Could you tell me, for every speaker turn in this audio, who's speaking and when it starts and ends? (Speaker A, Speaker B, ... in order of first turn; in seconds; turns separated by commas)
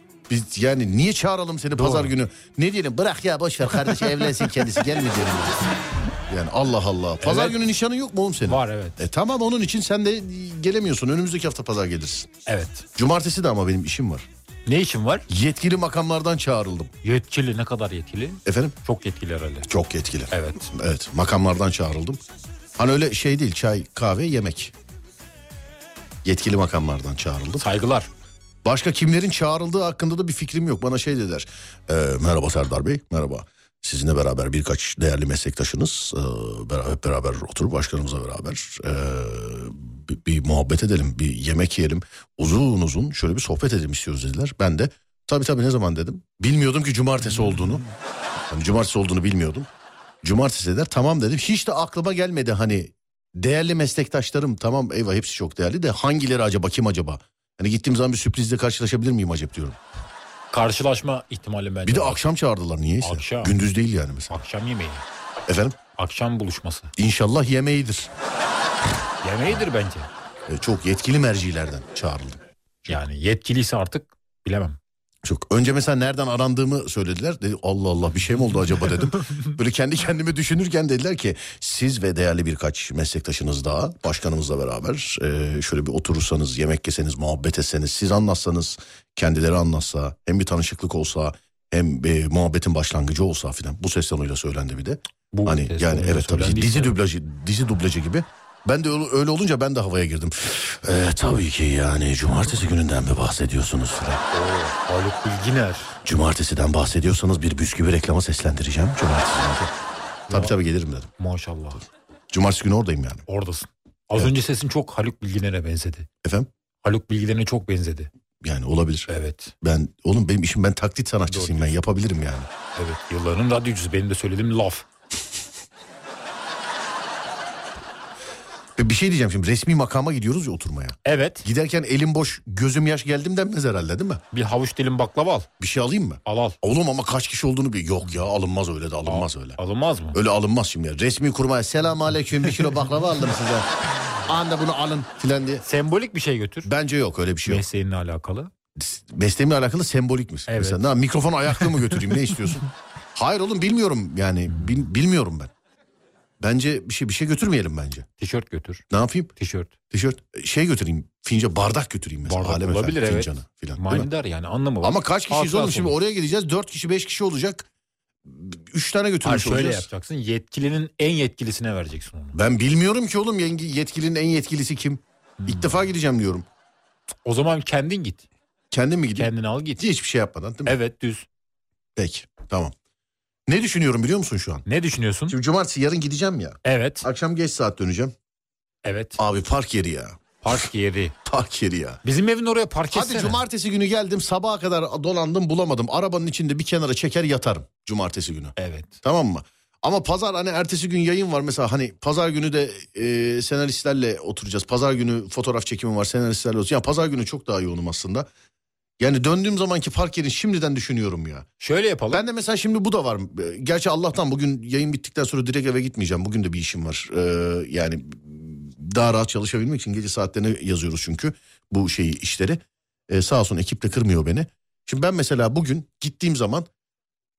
Speaker A: 0.3-5.7, Speaker B: 1.8-2.1, Speaker A: 6.3-12.3, Speaker B: 7.2-7.6, Speaker B: 8.5-9.0, Speaker B: 12.5-12.9, Speaker A: 13.0-14.3, Speaker B: 14.7-15.3, Speaker A: 15.3-16.9, Speaker B: 17.0-19.7, Speaker A: 18.5-18.8, Speaker A: 19.7-22.2, Speaker B: 20.3-20.7, Speaker A: 22.8-24.7, Speaker A: 26.2-27.6, Speaker B: 27.6-28.1, Speaker A: 28.6-47.9, Speaker A: 48.5-49.7, Speaker A: 50.2-59.8, Speaker B: 60.5-62.2, Speaker A: 61.9-64.4, Speaker B: 63.0-63.6, Speaker B: 64.3-65.0, Speaker A: 65.5-65.8, Speaker B: 66.0-66.9, Speaker A: 67.0-68.1, Speaker B: 69.2-70.1, Speaker A: 70.5-72.4, Speaker B: 72.9-74.8, Speaker A: 75.2-104.2, Speaker B: 95.3-97.0, Speaker B: 104.3-106.0, Speaker A: 106.0-109.7, Speaker B: 110.3-110.5, Speaker A: 110.3-111.1, Speaker B: 111.2-111.8, Speaker A: 112.3-113.2, Speaker B: 113.3-116.1, Speaker A: 116.2-116.5, Speaker B: 116.8-118.1, Speaker A: 118.4-119.1, Speaker B: 119.1-119.5, Speaker A: 119.6-122.5, Speaker B: 121.3-121.8, Speaker B: 122.8-124.9, Speaker A: 128.8-134.2, Speaker B: 131.1-131.4, Speaker B: 134.3-135.5, Speaker A: 135.6-139.6, Speaker B: 136.3-136.6, Speaker B: 139.1-140.2, Speaker A: 140.1-145.6, Speaker B: 145.6-146.7, Speaker A: 146.7-147.7, Speaker B: 147.5-148.5, Speaker A: 148.8-155.5, Speaker B: 150.5-150.8, Speaker A: 156.4-158.1, Speaker B: 158.2-158.8, Speaker A: 158.9-159.3, Speaker B: 159.4-159.7, Speaker A: 159.9-164.1, Speaker B: 162.2-166.0, Speaker A: 164.8-167.7, Speaker A: 168.2-169.9, Speaker B: 169.2-172.4, Speaker A: 172.3-176.5, Speaker B: 175.4-175.7, Speaker B: 177.2-178.3, Speaker A: 178.7-180.8, Speaker B: 179.2-179.8, Speaker B: 180.7-181.3, Speaker A: 182.0-182.8, Speaker A: 183.5-184.6, Speaker B: 184.7-185.4, Speaker A: 185.3-188.1, Speaker B: 186.7-187.1, Speaker B: 188.8-189.2, Speaker A: 189.2-190.6, Speaker B: 190.4-191.1, Speaker A: 191.2-192.0, Speaker B: 192.0-193.4, Speaker A: 192.9-208.3, Speaker B: 198.6-199.0, Speaker A: 209.0-211.5, Speaker B: 211.6-212.2, Speaker A: 212.1-226.7